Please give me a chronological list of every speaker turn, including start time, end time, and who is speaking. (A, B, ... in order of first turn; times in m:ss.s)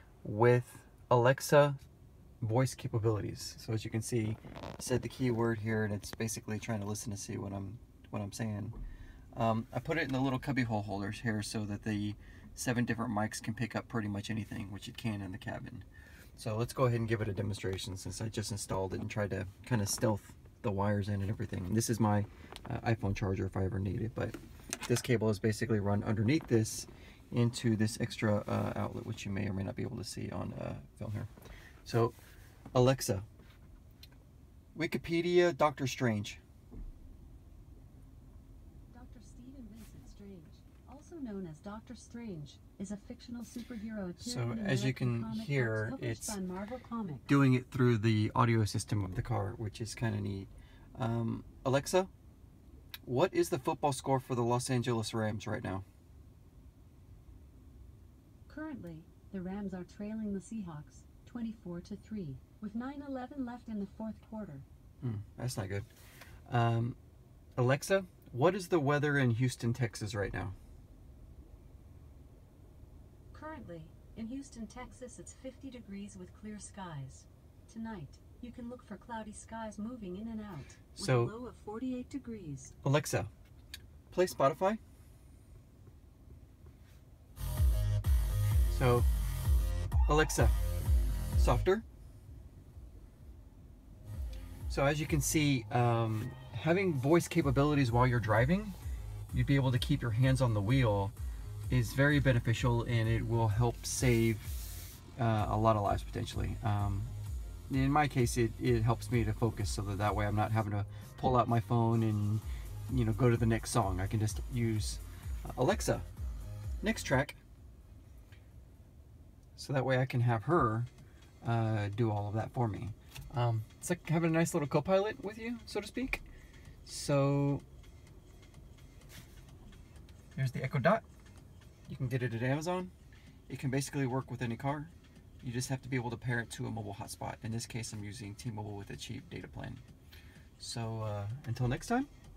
0:00.2-0:01.8 A
0:02.4-0:08.8 A
0:09.3-0:15.8 A
0:16.4-0:31.3 A
0:31.8-0:32.2 A
0:32.7-0:33.2 A
0:34.7-0:36.4 A
0:38.9-0:47.3 B
0:44.2-0:46.4 A
0:47.3-0:52.1 A
0:53.0-0:55.8 A
0:58.5-1:04.6 B
1:05.0-1:05.9 A
1:06.5-1:07.0 A
1:07.6-1:10.5 A
1:13.3-1:22.7 B
1:20.9-1:21.3 A
1:22.8-1:23.3 A
1:24.1-1:24.8 A
1:28.7-1:29.1 A
1:30.1-1:30.6 A
1:31.4-1:31.8 A
1:34.7-1:38.8 A
1:39.3-1:41.1 A
1:41.7-1:44.6 A
1:45.2-1:47.1 A
1:47.7-1:56.0 A
1:56.8-1:57.4 A
1:59.6-2:00.9 A
2:01.4-2:06.2 A
2:06.8-2:07.6 A
2:10.3-2:11.0 A
2:11.9-2:12.9 A
2:13.5-2:19.8 A
2:20.6-2:22.1 A